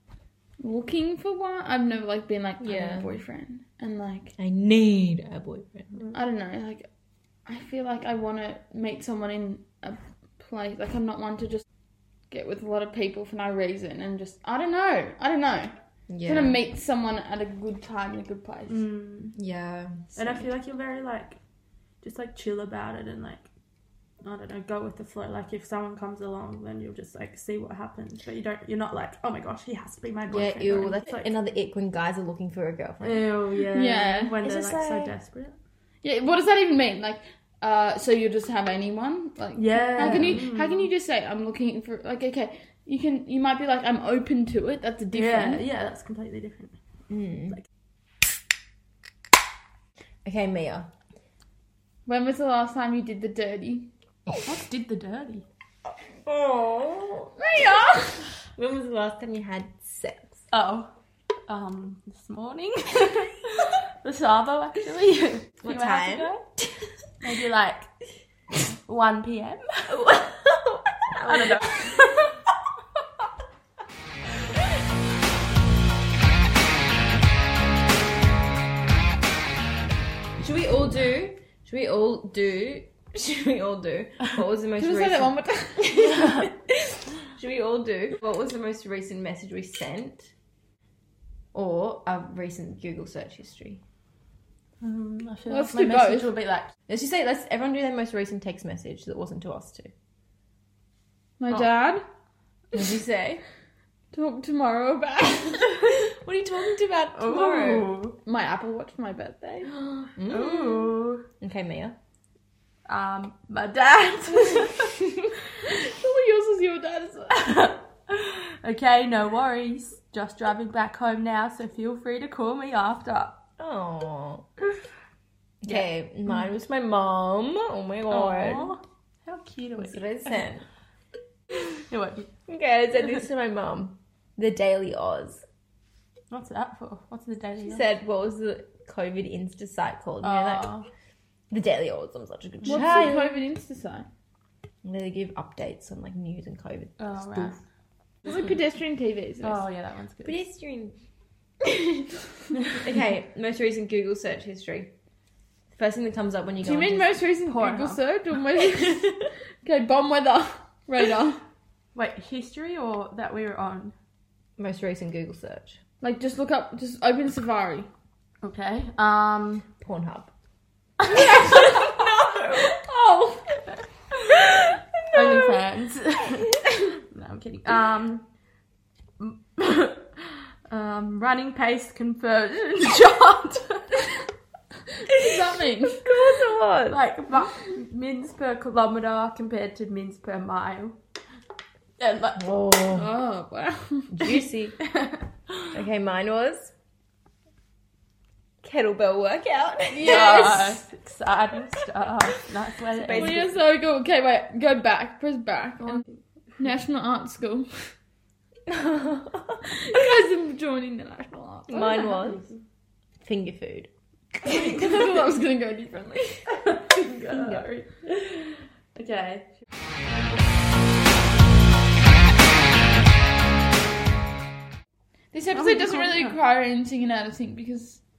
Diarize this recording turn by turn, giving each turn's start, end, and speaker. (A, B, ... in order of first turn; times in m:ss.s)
0:00.6-0:04.3 A
0:02.6-0:03.1 B
0:04.4-0:06.0 B
0:06.1-0:06.9 A
0:07.5-0:11.6 A
0:12.3-0:18.8 A
0:16.1-0:16.6 B
0:18.7-0:19.4 C
0:19.4-0:20.4 B
0:20.2-0:21.4 C
0:22.0-0:23.4 C
0:24.2-0:31.3 C
0:30.3-0:33.2 B
0:33.0-0:35.5 C
0:33.7-0:35.1 A
0:36.0-0:45.6 A
0:39.6-0:40.9 C
0:40.0-0:40.4 B
0:45.1-0:46.8 C
0:47.1-0:47.6 B
0:50.2-0:50.9 B
0:52.1-0:53.9 A
0:54.4-0:55.5 C
0:56.2-0:57.7 B
0:57.4-0:58.2 A
0:58.5-1:00.4 B
1:00.5-1:00.9 C
1:01.5-1:06.5 C
1:05.6-1:06.3 B
1:07.2-1:07.9 C
1:08.9-1:10.0 C
1:09.9-1:12.0 B
1:11.3-1:12.3 C
1:20.4-1:30.3 B
1:24.8-1:26.2 A
1:31.5-1:33.8 B
1:34.8-1:36.7 C
1:35.5-1:36.3 A
1:36.9-1:39.9 B
1:41.4-1:42.0 A
1:42.7-1:43.4 B
1:44.1-1:45.8 A
1:46.0-1:47.9 B
1:47.2-1:48.2 C
1:48.2-1:49.7 A
1:50.2-1:52.0 B
1:50.3-1:51.2 C
1:52.9-1:55.0 C
1:55.6-1:57.6 A
1:57.4-2:03.4 C
2:03.6-2:04.5 B
2:05.6-2:08.7 B
2:08.1-2:10.4 C
2:09.8-2:10.6 B
2:11.8-2:12.3 C
2:12.5-2:15.4 B
2:16.3-2:17.9 C
2:17.6-2:20.7 B
2:20.2-2:20.9 C
2:21.5-2:23.4 B
2:22.7-2:24.1 A
2:24.8-2:27.6 B
2:27.0-2:27.6 C
2:28.2-2:29.6 A
2:29.4-2:30.4 C
2:30.2-2:31.0 B
2:31.6-2:34.9 B
2:35.7-2:37.1 B
2:36.6-2:41.4 A
2:37.5-2:38.0 C
2:42.0-2:44.0 C
2:44.6-2:45.8 B
2:46.0-2:47.9 A
2:48.4-2:49.7 C
2:49.8-2:50.3 B
2:51.0-2:52.0 C
2:51.1-2:52.8 B
2:52.8-2:53.5 A
2:55.1-2:58.3 C
2:55.1-2:55.6 B
2:59.2-3:04.2 C
3:05.0-3:06.1 A
3:06.0-3:07.0 B
3:06.9-3:11.0 C
3:12.0-3:12.6 C
3:12.4-3:13.1 B
3:12.9-3:14.3 A
3:14.1-3:14.8 B
3:14.9-3:15.2 C
3:15.7-3:16.7 B
3:18.6-3:20.6 B
3:19.9-3:20.8 A
3:20.0-3:23.4 C
3:23.0-3:23.6 B
3:23.1-3:26.0 A
3:26.6-3:27.9 A
3:28.7-3:29.6 B
3:29.7-3:32.2 A
3:31.7-3:32.4 B
3:33.2-3:33.9 B
3:34.4-3:36.4 A
3:36.6-3:39.5 C
3:37.3-3:37.6 B
3:45.3-3:48.0 A
3:45.7-3:46.2 C